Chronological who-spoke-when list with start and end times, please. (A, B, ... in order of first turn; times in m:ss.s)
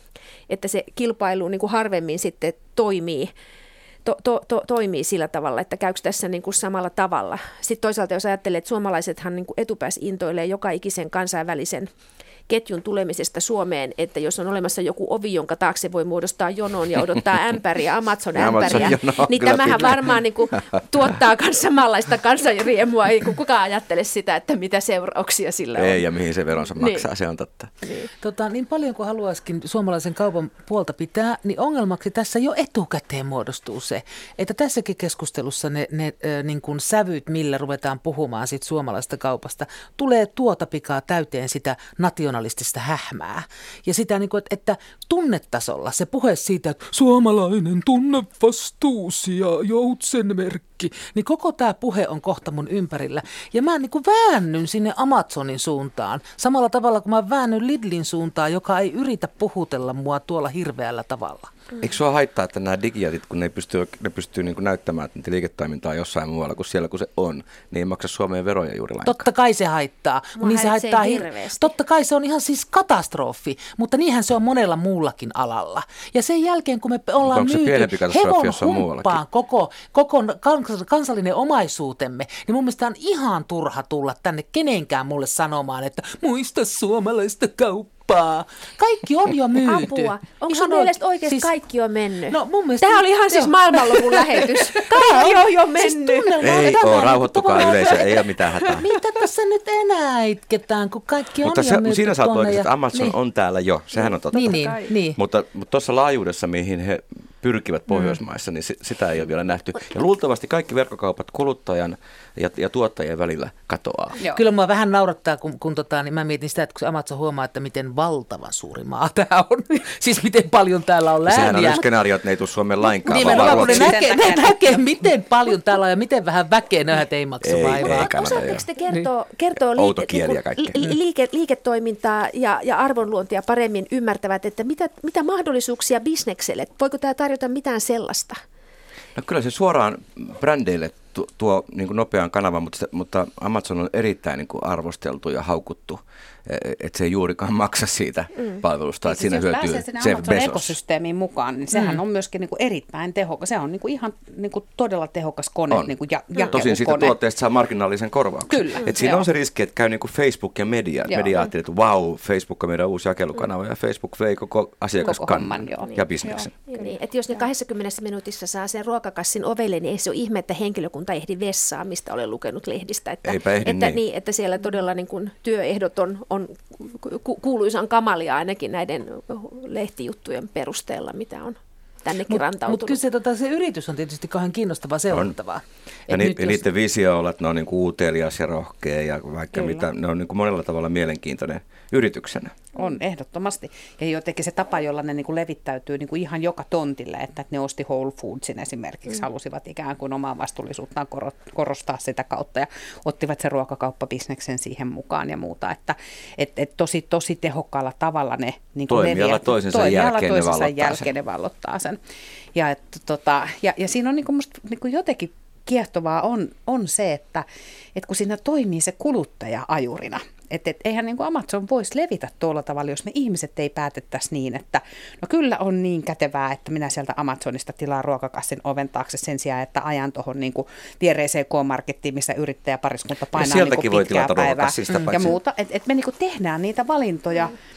0:00.5-0:03.3 A
0:04.0-0:11.9 A
0:12.5-0:26.1 A
0:18.4-0:20.7 B
0:25.8-0:27.7 B
0:26.8-0:27.1 A
0:27.8-0:28.1 A
0:28.2-1:01.5 C
1:01.8-1:09.2 B
1:09.0-1:31.5 C
1:10.4-1:11.7 A
1:17.3-1:19.2 B
1:29.6-1:36.4 A
1:32.3-1:43.2 C
1:36.4-1:38.9 B
1:41.4-1:54.2 B
1:44.3-1:45.2 C
1:44.4-1:44.8 A
1:54.2-2:01.9 C
2:01.2-2:04.1 B
2:03.0-2:08.1 C
2:03.1-2:04.8 D
2:07.4-2:08.7 B
2:07.8-2:18.4 A
2:09.7-2:10.8 B
2:19.1-2:30.8 B
2:29.0-2:37.2 D
2:35.7-2:46.6 B
2:38.5-2:39.3 D
2:45.0-2:46.5 D
2:46.7-3:03.0 A
2:53.2-2:54.0 B
3:02.3-3:06.6 C
3:06.1-3:12.6 B
3:09.5-3:09.8 D
3:12.8-3:32.0 D
3:28.9-3:31.1 B
3:32.5-3:57.6 D
3:53.3-3:55.4 B